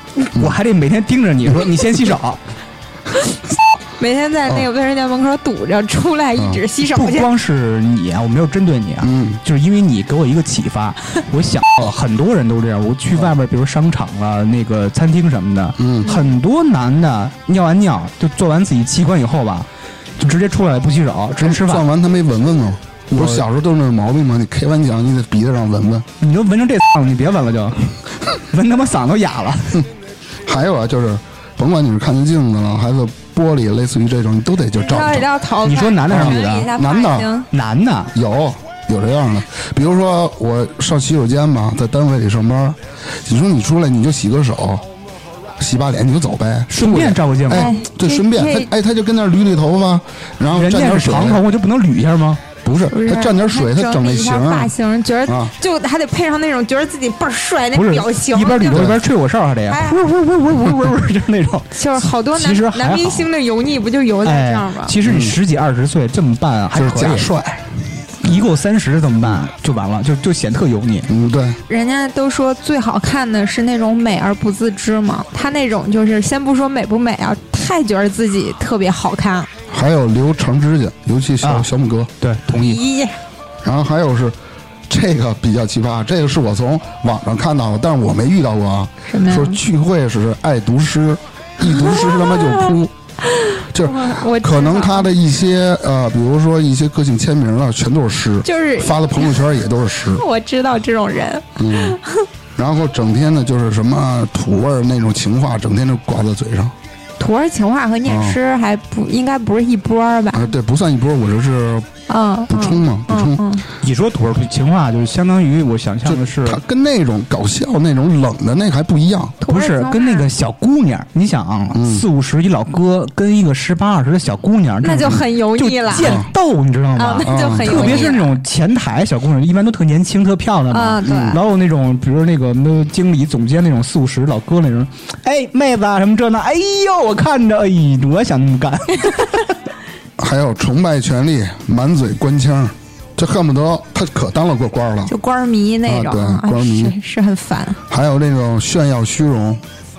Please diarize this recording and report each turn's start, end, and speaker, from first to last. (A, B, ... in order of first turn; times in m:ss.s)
0:00.2-0:02.4 A
0:04.0-0:07.3 B
0:06.4-0:06.6 C
0:06.8-0:19.7 A
0:09.0-0:09.4 C
0:15.8-0:16.1 C
0:20.2-0:21.9 A
0:21.4-0:26.1 C
0:23.1-0:23.4 A
0:26.2-0:29.9 A
0:30.4-0:35.3 C
0:34.8-0:37.5 B
0:35.6-0:36.7 A
0:36.1-0:37.3 C
0:37.5-0:38.1 A
0:38.1-0:44.8 C
0:45.6-0:51.4 C
0:46.7-0:47.7 A
0:47.5-0:48.7 B
0:50.5-0:52.4 A
0:52.6-0:54.7 C
0:52.9-0:59.0 B
0:55.2-0:55.5 C
0:57.8-1:01.8 A
0:58.7-0:59.0 C
0:59.7-1:00.0 B
1:01.8-1:04.9 B
1:02.3-1:03.3 A
1:04.2-1:07.4 A
1:05.0-1:05.4 C
1:06.8-1:07.6 C
1:08.2-1:11.1 A
1:11.1-1:11.6 C
1:11.7-1:19.5 B
1:19.7-1:22.1 C
1:21.4-1:21.7 A
1:22.2-1:22.8 A
1:22.5-1:23.2 B
1:23.6-1:24.4 C
1:24.9-1:32.9 C
1:29.1-1:29.6 B
1:31.7-1:35.1 B
1:33.7-1:40.2 C
1:38.5-1:39.4 B
1:40.0-1:42.3 B
1:41.6-1:42.0 C
1:42.6-1:46.8 C
1:47.2-1:50.5 B
1:48.1-1:48.4 C
1:50.3-1:51.9 C
1:52.1-1:53.6 B
1:52.5-1:53.4 C
1:53.8-1:56.6 A
1:56.1-1:59.4 C
1:59.4-2:00.3 B
1:59.5-2:19.5 A
2:01.7-2:02.0 C
2:04.8-2:06.2 B
2:06.0-2:06.3 C
2:07.0-2:08.4 B
2:07.3-2:08.1 C
2:10.7-2:11.4 B
2:11.0-2:11.4 C
2:20.2-2:25.1 C
2:25.1-2:27.8 B
2:25.9-2:27.0 C
2:27.9-2:29.6 C